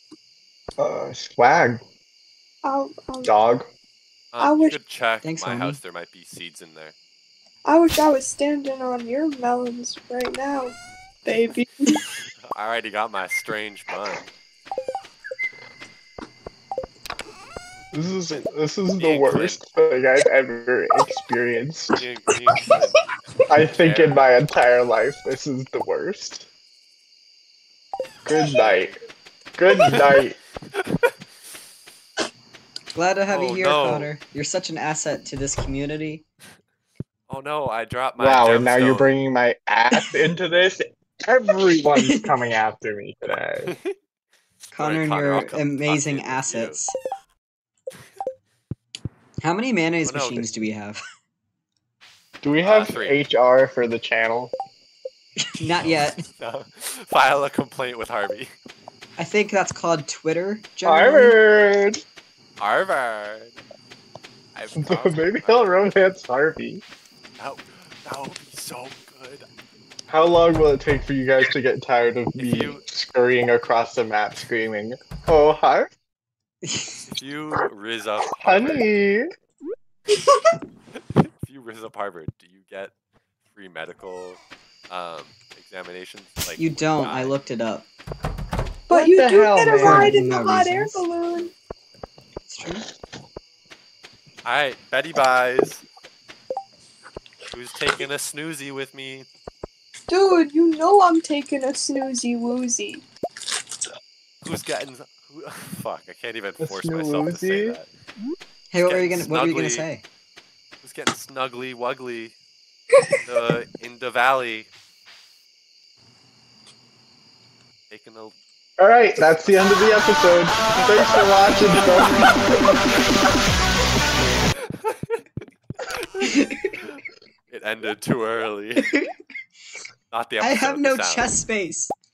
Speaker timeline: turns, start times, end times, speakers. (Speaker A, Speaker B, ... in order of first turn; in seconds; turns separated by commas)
Speaker A: 0.8-1.8, Speaker B: 2.6-3.3, Speaker A: 3.2-3.7, Speaker C: 4.3-7.0, Speaker B: 4.4-4.8, Speaker D: 5.2-5.8, Speaker B: 7.7-12.0, Speaker C: 12.4-14.3, Speaker A: 17.9-22.0, Speaker C: 19.0-19.6, Speaker C: 22.0-24.3, Speaker A: 23.5-26.5, Speaker A: 28.2-29.0, Speaker C: 28.4-28.9, Speaker A: 29.6-30.4, Speaker C: 29.9-30.2, Speaker C: 30.8-31.1, Speaker D: 33.0-36.2, Speaker C: 33.3-34.1, Speaker C: 37.3-39.1, Speaker A: 38.2-43.8, Speaker D: 42.0-42.3, Speaker C: 43.6-44.0, Speaker C: 44.7-46.8, Speaker D: 44.7-46.9, Speaker D: 49.4-51.0, Speaker C: 50.1-50.5, Speaker A: 52.4-54.5, Speaker C: 52.6-53.2, Speaker D: 55.4-56.2, Speaker C: 55.6-58.5, Speaker D: 59.2-61.4, Speaker A: 60.9-62.0, Speaker C: 62.6-63.5, Speaker C: 64.5-65.8, Speaker A: 64.8-66.8, Speaker C: 67.4-69.5, Speaker A: 70.1-75.9, Speaker C: 72.4-72.8, Speaker D: 76.6-77.0, Speaker C: 77.0-78.9, Speaker A: 78.4-79.3, Speaker C: 81.2-82.9, Speaker C: 83.5-87.3, Speaker D: 86.6-87.9, Speaker B: 88.9-91.5, Speaker A: 88.9-90.3, Speaker D: 89.8-91.0, Speaker D: 92.5-92.9, Speaker C: 94.5-95.8, Speaker C: 97.5-99.3, Speaker B: 100.1-103.0, Speaker C: 104.4-107.9, Speaker A: 106.6-107.8, Speaker D: 108.7-110.0, Speaker C: 108.8-109.9, Speaker C: 110.8-112.3, Speaker C: 113.2-114.7, Speaker C: 117.9-118.3, Speaker A: 118.8-122.4, Speaker C: 122.0-123.0, Speaker C: 124.5-125.2, Speaker C: 125.9-127.0, Speaker D: 126.2-126.8, Speaker C: 127.5-128.9, Speaker C: 130.1-131.4, Speaker D: 130.4-131.9